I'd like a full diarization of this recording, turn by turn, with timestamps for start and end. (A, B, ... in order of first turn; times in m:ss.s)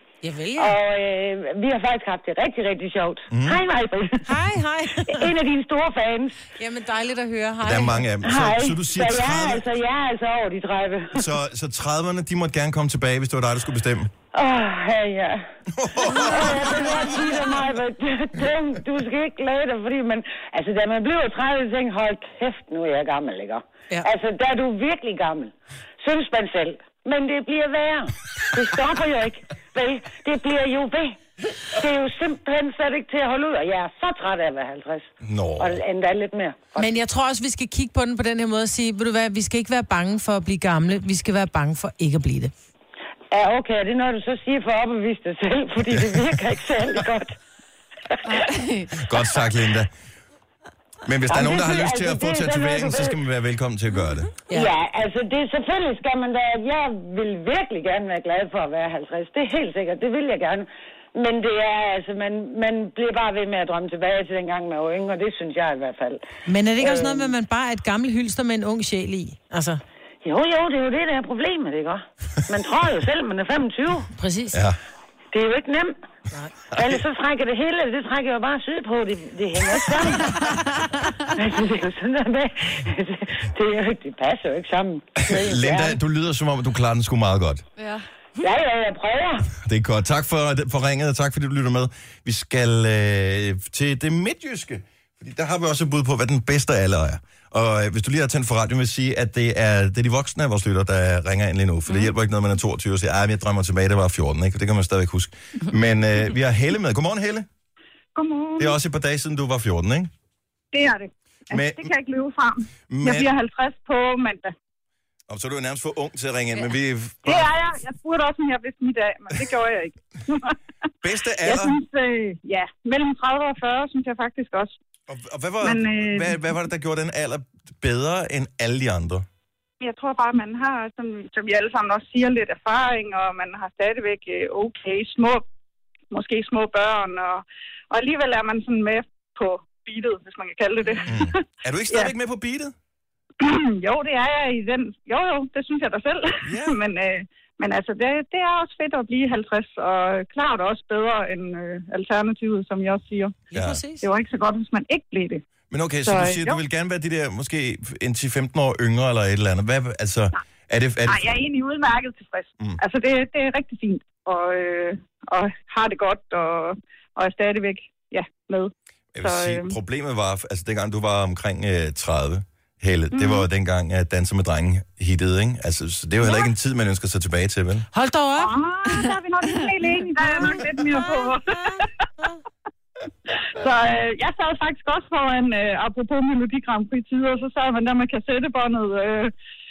0:00.2-0:00.8 A
0:00.6-0:06.4 B
0:03.3-0:03.6 C
0:04.2-0:05.3 A
0:06.6-0:08.3 A
0:07.6-0:09.6 C
0:08.2-0:11.3 B
0:11.1-0:14.1 C
0:14.3-0:15.4 B
0:15.7-0:17.0 C
0:16.0-0:31.2 B
0:16.1-0:16.6 A
0:31.7-0:36.9 B
0:35.2-0:35.8 C
0:36.8-0:42.5 A
0:43.3-0:47.4 B
0:48.1-0:48.5 B
0:48.2-0:49.1 D
0:49.0-0:49.9 C
0:51.0-0:54.3 C
0:51.3-0:53.2 B
0:54.5-1:06.2 B
1:06.5-1:09.8 A
1:06.8-1:07.3 B
1:10.2-1:14.1 B
1:14.1-1:14.6 A
1:15.3-1:16.0 B
1:16.7-1:20.6 B
1:20.2-1:20.7 D
1:21.3-1:26.0 B
1:25.2-1:27.6 C
1:27.8-1:28.0 D
1:28.4-1:29.5 B
1:29.6-1:47.5 C
1:48.1-1:48.8 E
1:48.6-1:50.1 C
1:50.7-1:54.5 E
1:51.5-1:51.9 C
1:52.9-1:53.3 C
1:55.3-1:57.5 C
1:57.2-2:00.5 E
2:01.0-2:01.8 C
2:01.4-2:04.7 E
2:05.1-2:09.2 C
2:05.6-2:06.4 E
2:09.8-2:15.4 E
2:16.1-2:22.1 E
2:21.0-2:22.7 C
2:23.4-2:33.4 E
2:26.4-2:26.8 C
2:33.5-2:34.1 A
2:33.5-2:33.8 C
2:34.0-2:35.4 E
2:35.7-2:41.4 C
2:36.0-2:36.6 E
2:41.1-2:49.7 E
2:49.1-2:57.9 C
2:57.9-2:58.6 A
2:58.4-3:01.8 E
2:58.8-2:59.5 D
3:00.4-3:01.8 A
3:03.5-3:09.3 E